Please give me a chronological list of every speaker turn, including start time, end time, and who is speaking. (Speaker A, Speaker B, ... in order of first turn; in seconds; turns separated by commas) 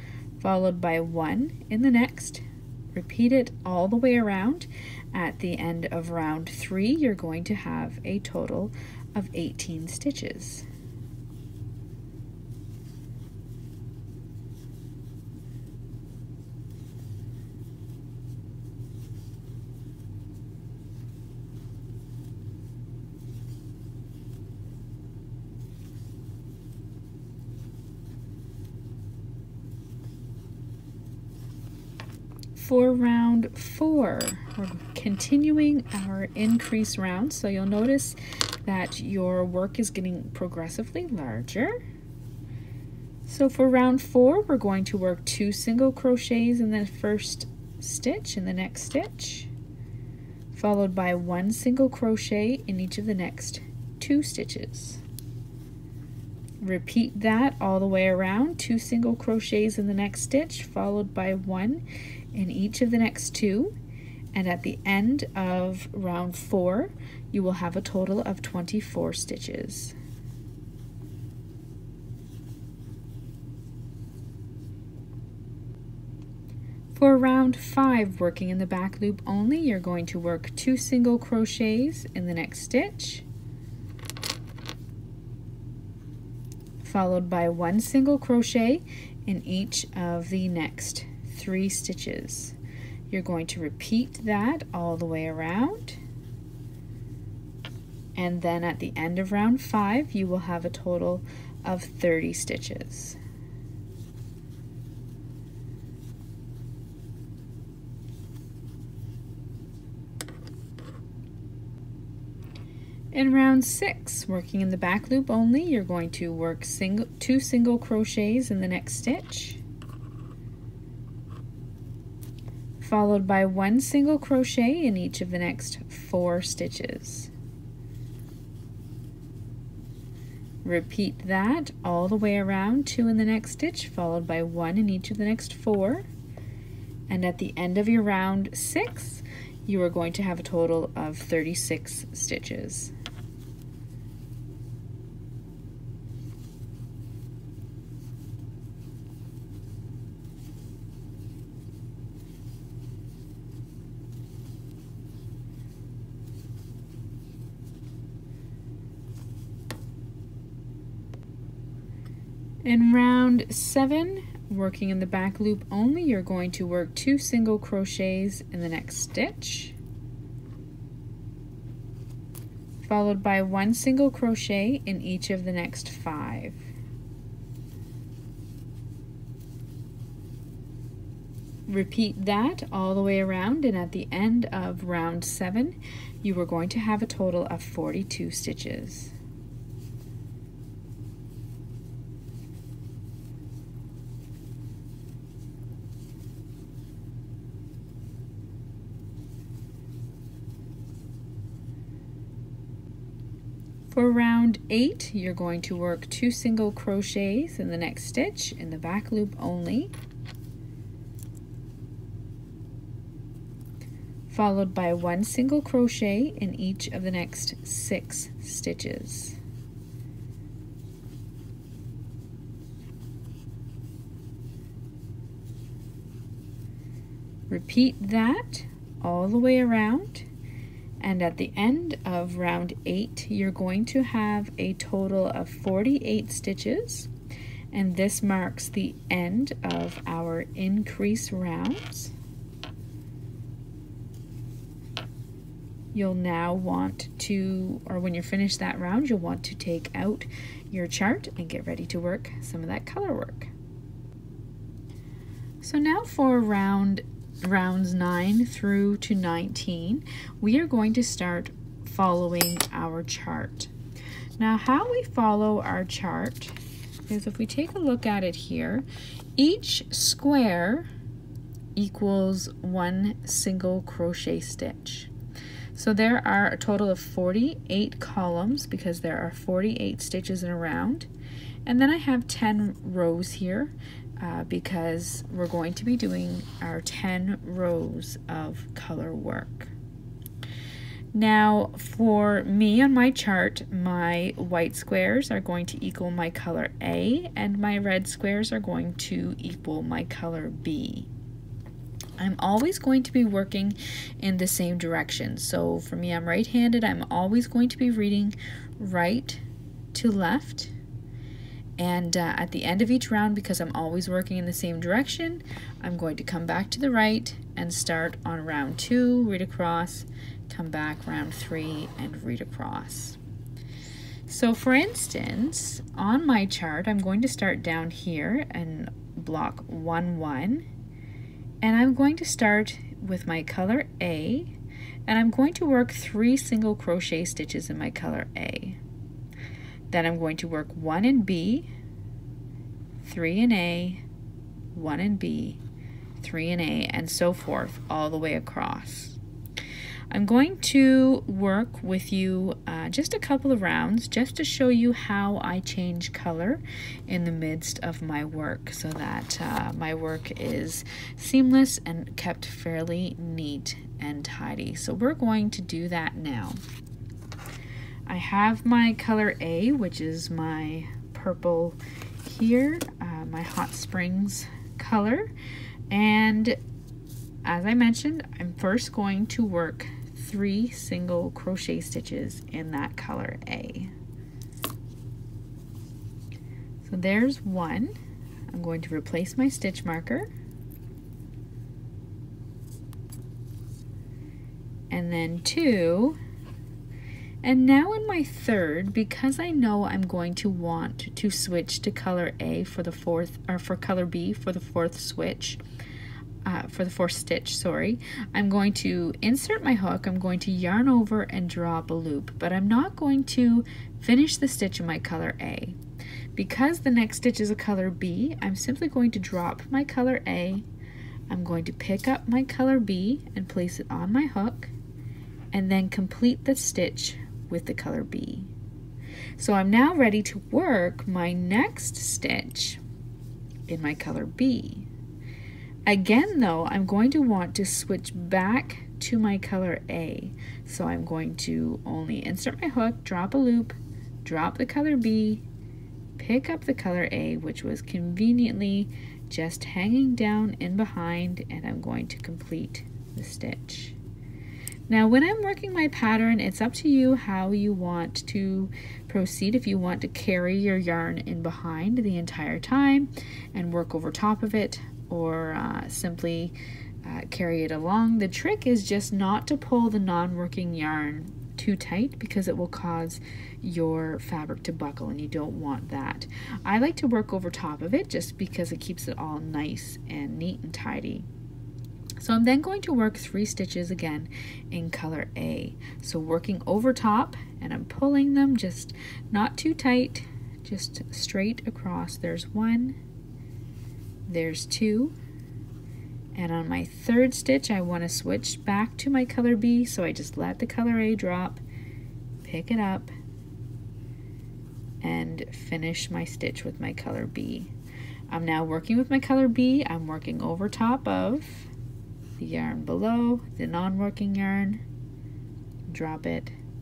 Speaker A: 0.4-10.7, Speaker A: 32.5-41.7, Speaker A: 43.3-49.5, Speaker A: 50.5-55.0, Speaker A: 56.6-61.8, Speaker A: 62.3-63.7, Speaker A: 64.3-70.0, Speaker A: 77.0-83.2, Speaker A: 86.8-92.6, Speaker A: 93.1-96.0, Speaker A: 98.2-103.2, Speaker A: 113.1-119.6, Speaker A: 122.8-127.3, Speaker A: 130.6-136.1, Speaker A: 137.1-142.9, Speaker A: 162.7-169.8, Speaker A: 172.8-176.6, Speaker A: 181.7-189.1, Speaker A: 203.9-209.9, Speaker A: 214.3-219.4, Speaker A: 227.5-230.3, Speaker A: 231.0-237.1, Speaker A: 237.7-242.1, Speaker A: 245.9-253.5, Speaker A: 255.6-263.7, Speaker A: 264.4-268.9, Speaker A: 269.4-270.9, Speaker A: 271.8-275.1, Speaker A: 275.7-281.1, Speaker A: 281.7-289.7, Speaker A: 291.1-301.1, Speaker A: 302.2-310.7, Speaker A: 311.8-323.2, Speaker A: 324.3-330.6, Speaker A: 331.6-334.5, Speaker A: 335.1-338.8, Speaker A: 339.9-341.7, Speaker A: 343.0-344.0, Speaker A: 344.7-345.6, Speaker A: 346.2-349.2, Speaker A: 350.1-366.6, Speaker A: 368.1-375.3, Speaker A: 375.9-376.6, Speaker A: 377.4-383.9, Speaker A: 386.8-387.9, Speaker A: 388.5-390.3, Speaker A: 394.9-396.2, Speaker A: 397.4-405.6, Speaker A: 406.4-415.8, Speaker A: 416.4-420.7, Speaker A: 421.3-424.7, Speaker A: 425.5-428.5, Speaker A: 429.4-432.8, Speaker A: 433.7-434.9, Speaker A: 435.9-445.4, Speaker A: 446.2-454.0, Speaker A: 454.9-481.3, Speaker A: 482.2-493.0, Speaker A: 494.3-495.2, Speaker A: 496.3-501.6, Speaker A: 502.4-503.1, Speaker A: 505.0-507.7, Speaker A: 508.3-511.7, Speaker A: 512.4-514.8, Speaker A: 515.9-516.5